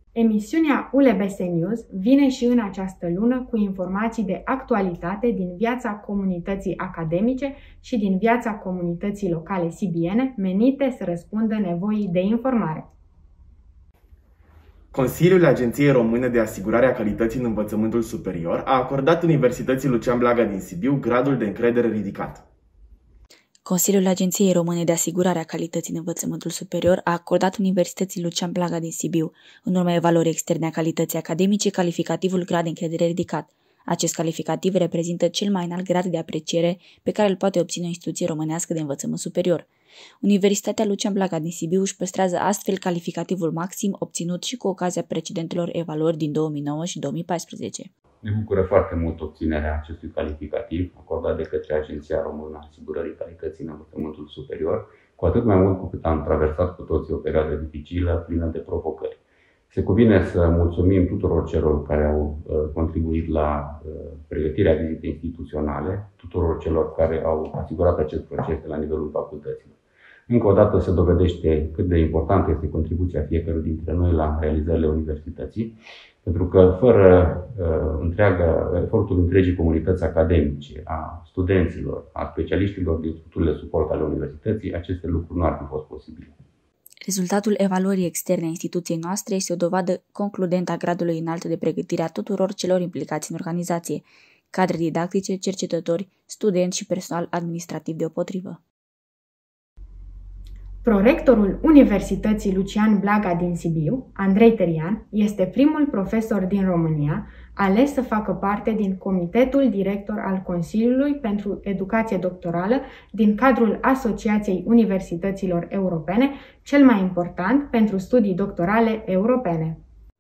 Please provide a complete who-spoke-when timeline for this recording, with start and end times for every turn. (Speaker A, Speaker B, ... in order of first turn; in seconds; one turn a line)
Speaker A: 0.1-12.9
Speaker B: 14.9-22.4
Speaker C: 23.6-39.7
Speaker C: 40.2-47.9
Speaker D: 48.2-86.4
Speaker C: 87.0-98.6
Speaker A: 100.8-119.8